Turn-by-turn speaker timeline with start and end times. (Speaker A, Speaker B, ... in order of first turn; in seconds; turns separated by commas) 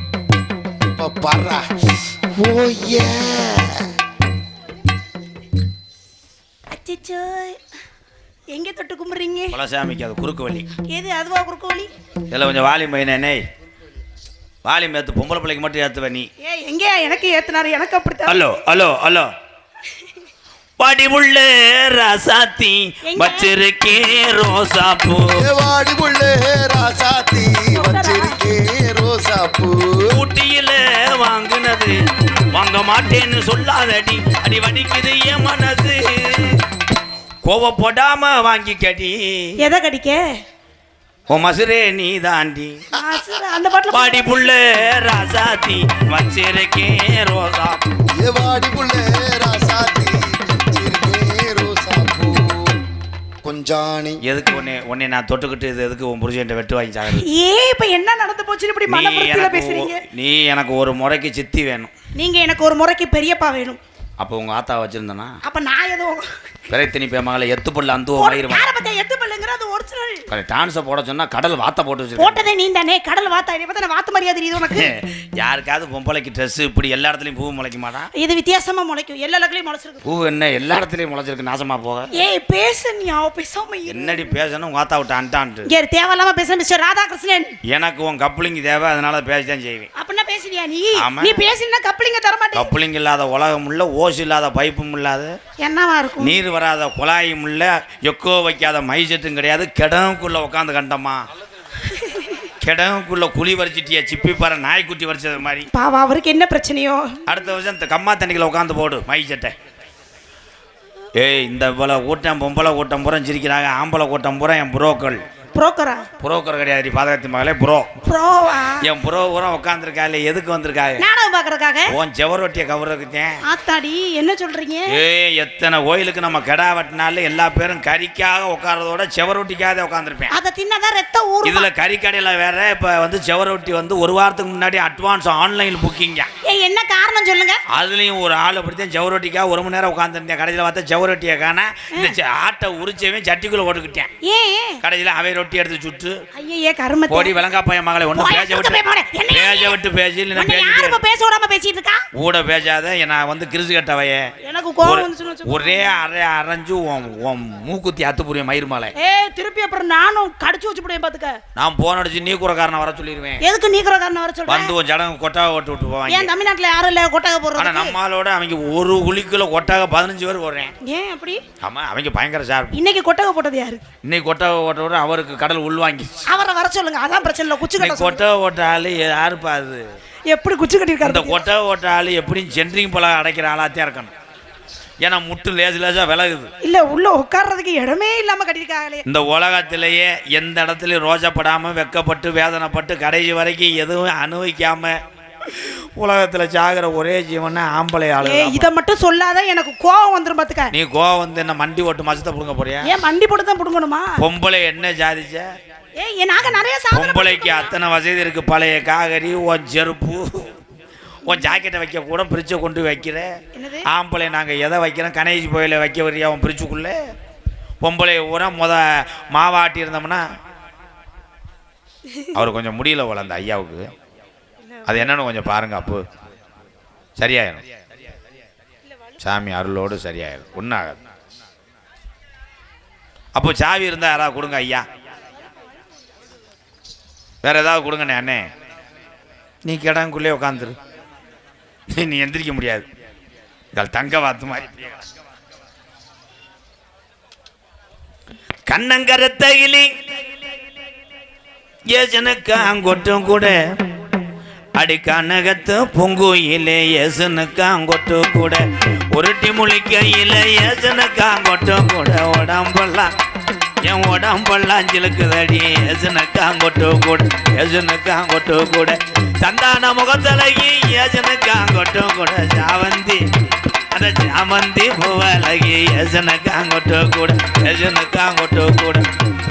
Speaker A: 1.0-3.9, Speaker B: 6.7-7.6, Speaker B: 8.5-9.6, Speaker C: 9.5-10.7, Speaker B: 10.9-11.9, Speaker C: 12.3-13.4, Speaker C: 14.7-16.3, Speaker B: 16.4-18.4, Speaker C: 18.3-19.3, Speaker C: 20.8-25.4, Speaker B: 23.1-23.5, Speaker A: 25.3-30.2, Speaker B: 27.7-28.4, Speaker C: 30.1-32.0, Speaker C: 32.5-36.6, Speaker C: 37.4-39.5, Speaker B: 39.6-40.2, Speaker C: 41.3-42.8, Speaker B: 42.9-44.5, Speaker C: 43.9-47.8, Speaker A: 48.1-52.8, Speaker A: 53.4-54.2, Speaker C: 54.2-57.2, Speaker B: 57.1-60.0, Speaker C: 58.9-61.9, Speaker B: 62.2-63.8, Speaker C: 64.2-65.4, Speaker B: 65.4-66.3, Speaker C: 66.7-68.7, Speaker B: 68.2-70.3, Speaker C: 70.3-72.4, Speaker B: 72.2-74.9, Speaker C: 74.7-78.1, Speaker B: 78.2-80.0, Speaker C: 80.0-82.1, Speaker B: 82.1-84.3, Speaker C: 83.9-85.7, Speaker B: 85.7-87.5, Speaker C: 87.7-89.9, Speaker B: 90.0-92.7, Speaker C: 91.0-91.5, Speaker C: 92.5-95.4, Speaker B: 95.6-96.4, Speaker C: 96.2-101.2, Speaker B: 101.9-102.5, Speaker C: 102.6-105.7, Speaker B: 105.7-107.2, Speaker C: 107.3-109.6, Speaker C: 111.2-115.2, Speaker B: 115.5-116.1, Speaker C: 116.2-117.9, Speaker B: 118.0-118.9, Speaker C: 118.8-121.0, Speaker B: 121.0-121.9, Speaker C: 121.9-123.4, Speaker B: 123.5-125.0, Speaker C: 124.9-130.3, Speaker B: 130.3-131.7, Speaker C: 131.4-136.3, Speaker B: 136.4-137.6, Speaker C: 137.7-144.1, Speaker B: 144.2-144.8, Speaker C: 144.8-146.2, Speaker B: 146.3-147.3, Speaker C: 147.1-148.8, Speaker B: 148.2-149.8, Speaker C: 149.3-151.0, Speaker B: 150.3-152.1, Speaker C: 152.2-154.3, Speaker B: 154.4-156.0, Speaker C: 154.8-158.9, Speaker B: 159.0-161.4, Speaker C: 161.6-163.4, Speaker B: 163.4-164.7, Speaker C: 164.5-166.3, Speaker B: 166.1-167.9, Speaker C: 167.6-170.7, Speaker B: 170.8-171.4, Speaker C: 171.6-172.7, Speaker B: 172.7-173.8, Speaker C: 174.0-176.2, Speaker B: 176.3-178.2, Speaker C: 177.8-179.8, Speaker B: 180.3-181.4, Speaker C: 181.0-184.1, Speaker C: 185.0-186.5, Speaker B: 186.6-189.0, Speaker C: 189.1-198.7, Speaker B: 198.2-200.7, Speaker C: 200.7-202.9, Speaker B: 202.8-204.1, Speaker C: 204.2-205.5, Speaker B: 206.0-207.7, Speaker C: 206.9-210.5, Speaker B: 211.2-211.6, Speaker C: 211.2-213.3, Speaker B: 213.5-213.9, Speaker C: 213.9-217.0, Speaker C: 217.8-220.2, Speaker C: 222.3-223.9, Speaker B: 224.6-225.1, Speaker C: 224.9-226.1, Speaker C: 227.2-227.6, Speaker C: 229.2-231.0, Speaker C: 233.3-234.9, Speaker C: 237.4-238.5, Speaker C: 239.6-240.8, Speaker C: 241.9-242.9, Speaker C: 243.7-245.0, Speaker C: 248.7-249.9, Speaker C: 251.9-253.6, Speaker C: 254.8-263.1, Speaker C: 263.8-273.2, Speaker C: 273.9-279.1